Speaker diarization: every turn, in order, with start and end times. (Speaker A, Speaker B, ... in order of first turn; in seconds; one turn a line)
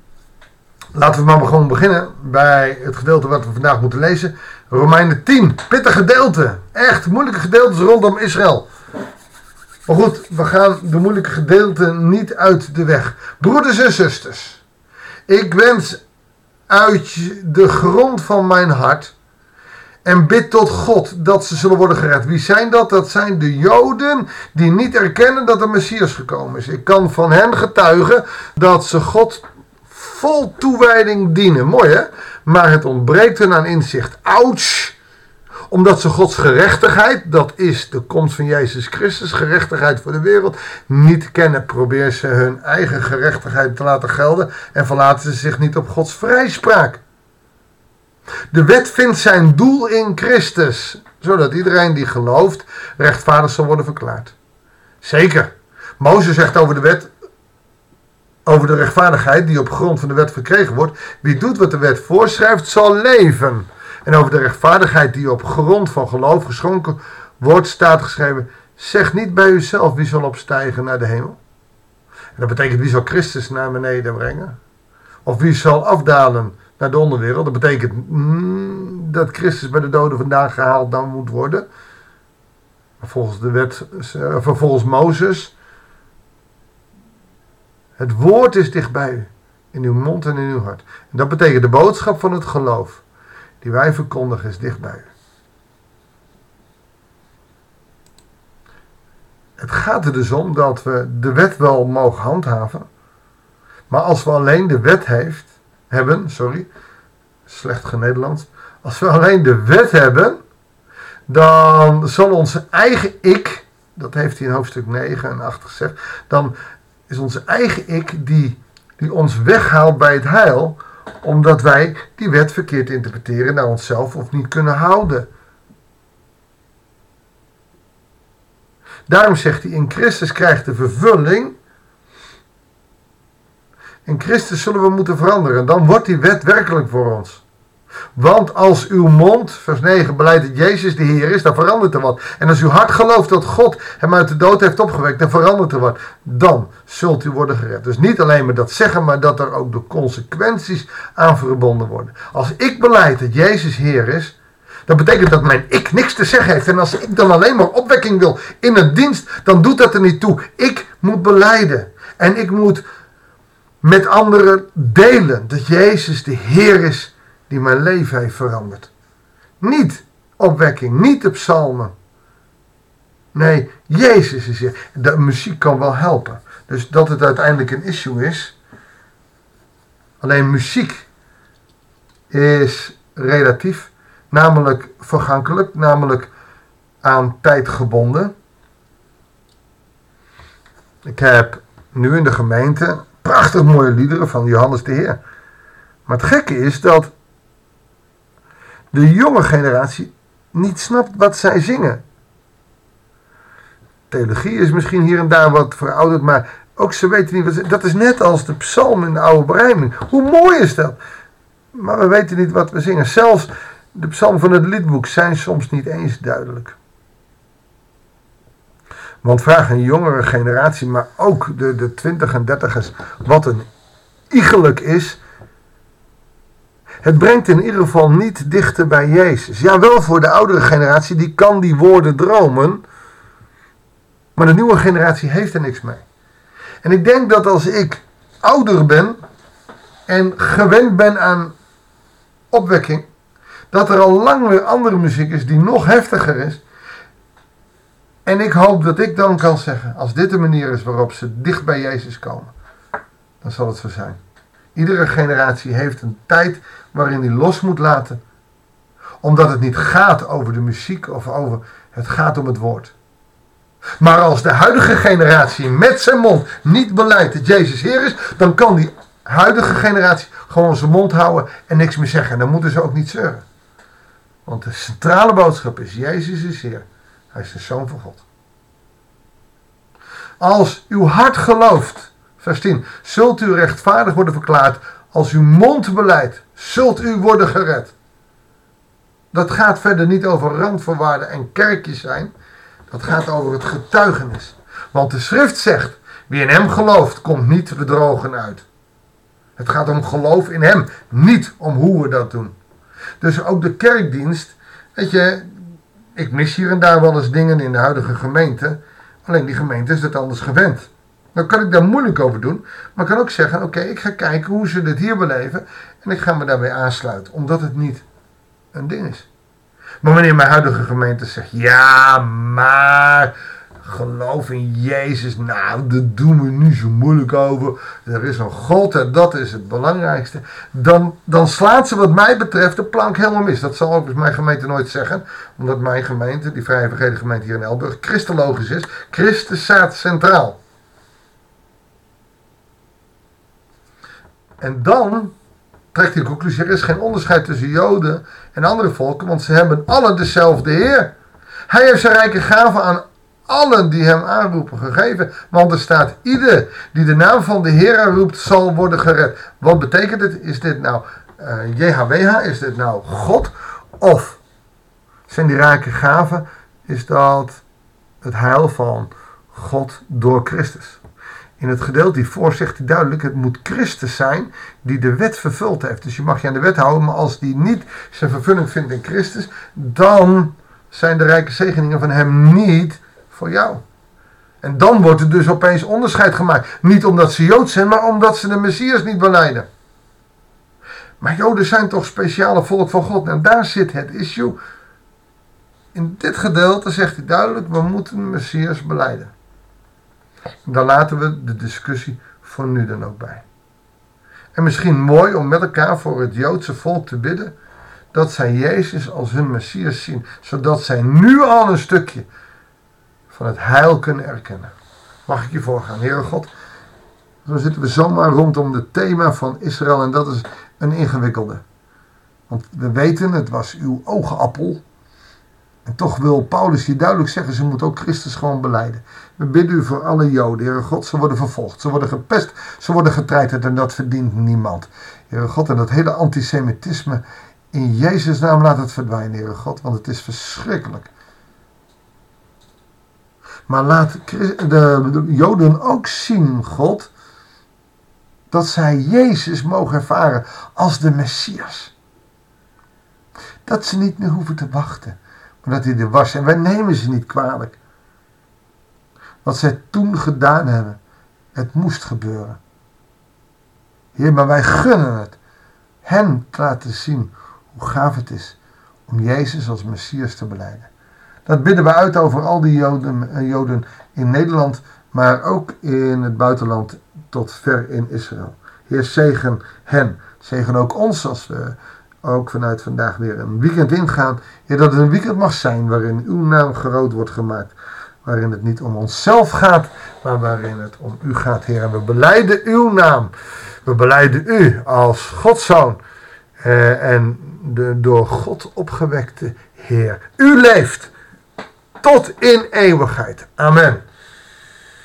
Speaker A: 0.9-8.7
Speaker A: 9.9-14.6
Speaker A: 15.3-16.0
Speaker A: 16.7-19.1
Speaker A: 20.0-35.0
Speaker A: 35.7-47.0
Speaker A: 48.5-54.3
Speaker A: 55.0-57.1
Speaker A: 58.5-71.4
Speaker A: 72.3-74.5
Speaker A: 75.2-81.7
Speaker A: 83.0-85.5
Speaker A: 88.0-93.0
Speaker A: 93.6-95.1
Speaker A: 99.6-102.9
Speaker A: 103.9-106.7
Speaker A: 107.5-110.4
Speaker A: 111.3-116.5
Speaker A: 117.1-125.3
Speaker A: 129.1-131.6
Speaker A: 134.0-137.4
Speaker A: 138.1-154.3
Speaker A: 154.9-162.8
Speaker A: 163.8-168.9
Speaker A: 169.6-171.9
Speaker A: 173.3-178.5
Speaker A: 180.2-181.1
Speaker A: 182.3-186.3
Speaker A: 187.0-188.3
Speaker A: 191.0-195.2
Speaker A: 196.1-197.1
Speaker A: 198.9-202.0
Speaker A: 204.1-211.0
Speaker A: 211.7-216.8
Speaker A: 219.2-223.7
Speaker A: 224.3-225.2
Speaker A: 227.0-232.8
Speaker A: 234.3-236.0
Speaker A: 236.8-239.2
Speaker A: 240.1-241.5
Speaker A: 242.5-243.1
Speaker A: 243.7-246.6
Speaker A: 248.2-252.5
Speaker A: 253.4-254.2
Speaker A: 254.7-258.2
Speaker A: 259.2-262.9
Speaker A: 264.0-273.4
Speaker A: 274.4-278.2
Speaker A: 280.4-287.9
Speaker A: 289.3-292.3
Speaker A: 292.9-298.6
Speaker A: 299.6-302.5
Speaker A: 303.2-305.6
Speaker A: 306.1-318.0
Speaker A: 318.7-319.3
Speaker A: 320.0-340.6
Speaker A: 344.6-345.3
Speaker A: 345.9-351.1
Speaker A: 351.7-364.4
Speaker A: 365.3-367.6
Speaker A: 368.2-371.0
Speaker A: 371.6-383.8
Speaker A: 384.6-389.7
Speaker A: 391.2-394.6
Speaker A: 395.9-399.3
Speaker A: 400.6-403.4
Speaker A: 404.5-407.5
Speaker A: 408.1-412.3
Speaker A: 413.3-414.7
Speaker A: 415.2-416.5
Speaker A: 417.4-421.6
Speaker A: 422.5-424.8
Speaker A: 425.8-441.1
Speaker A: 443.7-447.1
Speaker A: 448.5-451.9
Speaker A: 453.6-457.8
Speaker A: 459.4-461.0
Speaker A: 461.5-462.6
Speaker A: 464.1-465.4
Speaker A: 466.0-468.6
Speaker A: 469.1-470.9
Speaker A: 471.4-493.3
Speaker A: 493.8-496.0
Speaker A: 496.6-501.1
Speaker A: 502.0-504.0